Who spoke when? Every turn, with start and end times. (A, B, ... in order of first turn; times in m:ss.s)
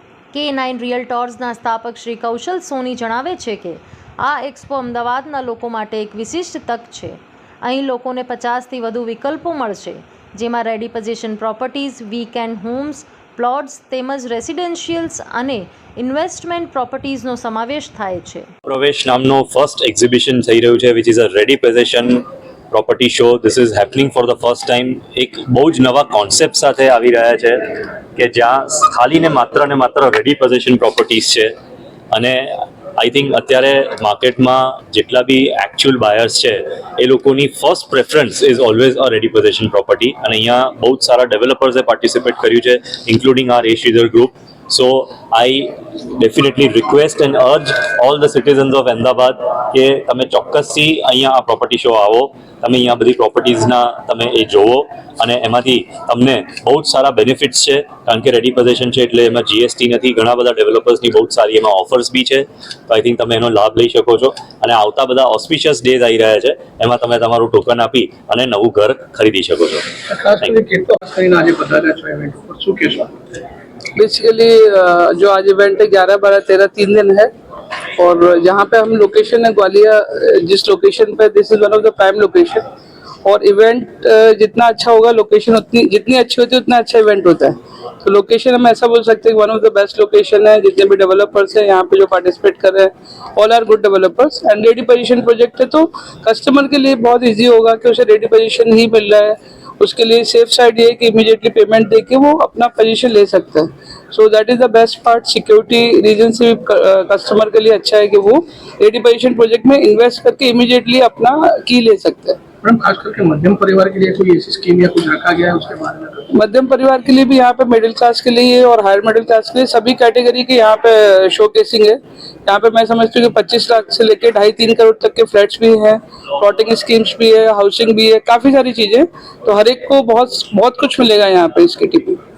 0:00.3-0:18.5 A
0:18.6-0:31.5 B
0:32.1-1:09.9 B
1:10.1-1:13.1 C
1:13.9-1:17.3 D
1:18.0-1:22.7 D
1:23.2-1:52.4 D
1:52.6-1:56.2 C
1:56.3-2:12.2 D